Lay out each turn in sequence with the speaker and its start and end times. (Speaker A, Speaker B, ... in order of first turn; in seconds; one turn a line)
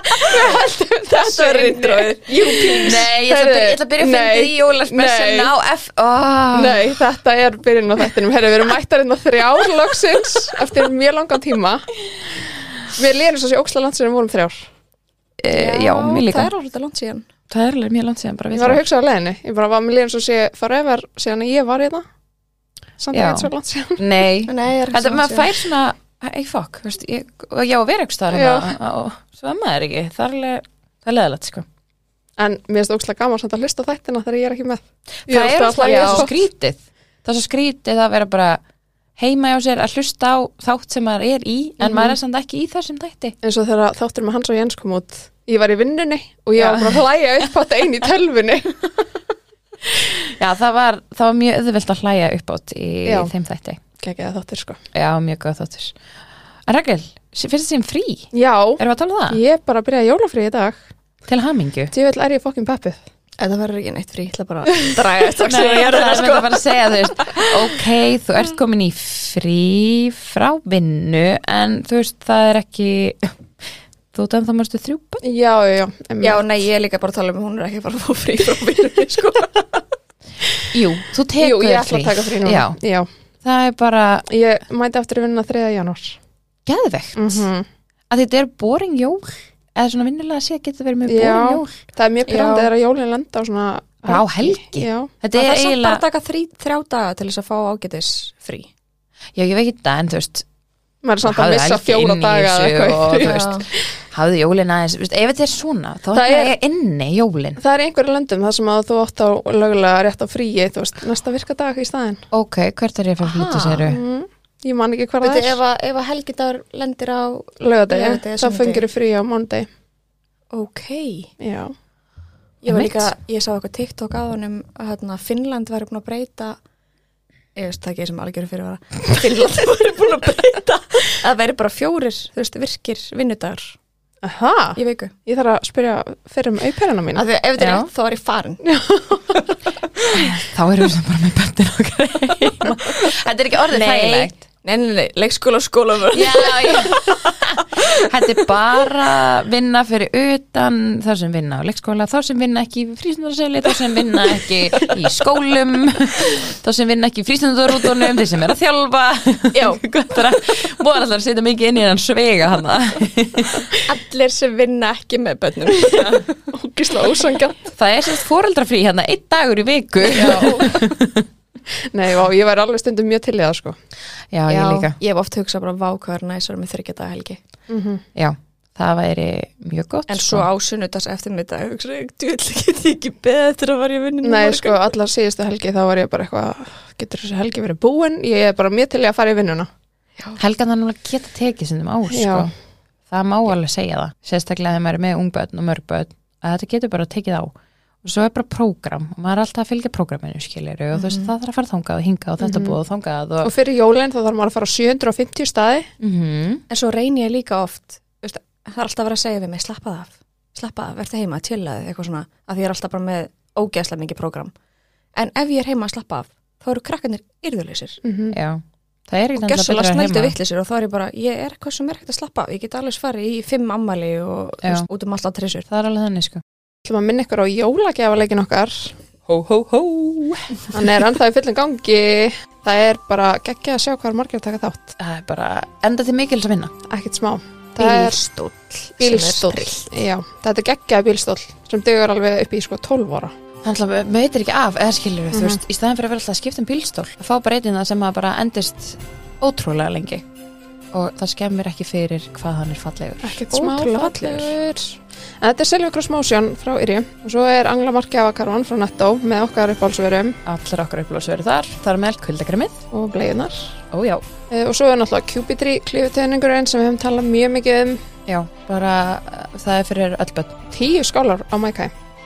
Speaker A: 0.2-3.0
Speaker B: 0.4-5.5
Speaker C: 2.8-6.8
Speaker B: 6.5-11.9
Speaker B: 12.9-14.7
Speaker C: 15.4-16.5
Speaker A: 15.5-17.3
Speaker C: 17.5-18.8
Speaker B: 18.5-22.0
Speaker B: 23.0-24.0
Speaker C: 23.1-31.6
Speaker A: 24.5-25.5
Speaker B: 28.3-28.7
Speaker B: 32.4-36.3
Speaker C: 35.2-38.6
Speaker A: 35.8-36.3
Speaker C: 39.2-43.3
Speaker B: 41.8-42.2
Speaker B: 43.4-48.8
Speaker C: 50.3-53.8
Speaker B: 53.0-53.3
Speaker B: 54.0-54.8
Speaker C: 54.9-56.0
Speaker C: 56.7-59.4
Speaker B: 58.3-60.8
Speaker C: 61.3-61.9
Speaker B: 61.9-63.0
Speaker A: 63.4-67.5
Speaker C: 65.4-73.4
Speaker C: 74.1-75.2
Speaker B: 75.2-76.4
Speaker A: 76.2-79.8
Speaker C: 80.7-82.8
Speaker B: 81.4-83.1
Speaker C: 83.4-84.2
Speaker B: 84.3-86.2
Speaker C: 86.7-87.5
Speaker B: 87.1-87.7
Speaker C: 88.1-91.8
Speaker B: 91.0-95.1
Speaker A: 92.3-92.7
Speaker C: 94.0-96.0
Speaker A: 95.3-98.7
Speaker C: 99.3-100.4
Speaker B: 101.0-103.3
Speaker C: 101.2-107.6
Speaker A: 103.2-103.6
Speaker B: 106.1-106.5
Speaker B: 107.6-112.2
Speaker C: 112.3-114.0
Speaker A: 113.2-114.0
Speaker B: 113.9-115.6
Speaker A: 115.2-118.8
Speaker B: 117.6-119.7
Speaker A: 120.5-121.3
Speaker B: 121.4-121.7
Speaker A: 122.6-126.6
Speaker C: 122.7-123.1
Speaker A: 127.5-133.7
Speaker B: 134.2-137.2
Speaker A: 134.8-135.1
Speaker A: 137.1-138.6
Speaker C: 137.6-137.9
Speaker B: 138.6-139.5
Speaker C: 140.2-144.3
Speaker A: 143.7-146.8
Speaker C: 146.1-163.7
Speaker A: 159.5-159.8
Speaker A: 163.9-167.7
Speaker C: 167.7-171.2
Speaker B: 170.1-170.7
Speaker A: 170.1-170.7
Speaker B: 171.8-173.7
Speaker C: 174.3-174.9
Speaker A: 174.5-177.4
Speaker B: 177.7-178.0
Speaker C: 178.2-180.4
Speaker A: 180.1-184.8
Speaker B: 184.2-189.7
Speaker C: 190.3-192.5
Speaker B: 192.1-192.5
Speaker C: 193.1-203.5
Speaker A: 200.9-201.3
Speaker B: 202.4-202.8
Speaker B: 203.4-205.9
Speaker C: 206.0-206.6
Speaker A: 206.7-214.5
Speaker A: 215.1-218.0
Speaker B: 218.0-218.3
Speaker C: 218.3-220.3
Speaker A: 219.4-225.7
Speaker C: 225.7-226.4
Speaker B: 226.8-228.9
Speaker C: 229.3-230.7
Speaker B: 230.7-235.0
Speaker C: 235.0-236.7
Speaker B: 236.9-238.2
Speaker A: 237.8-239.9
Speaker B: 239.0-243.3
Speaker C: 243.6-250.2
Speaker B: 245.3-245.6
Speaker C: 250.9-253.4
Speaker B: 253.2-254.8
Speaker A: 253.5-254.6
Speaker B: 255.4-260.4
Speaker C: 260.4-262.8
Speaker B: 262.9-263.8
Speaker C: 263.9-264.2
Speaker B: 264.5-268.0
Speaker C: 268.2-270.6
Speaker B: 270.7-271.9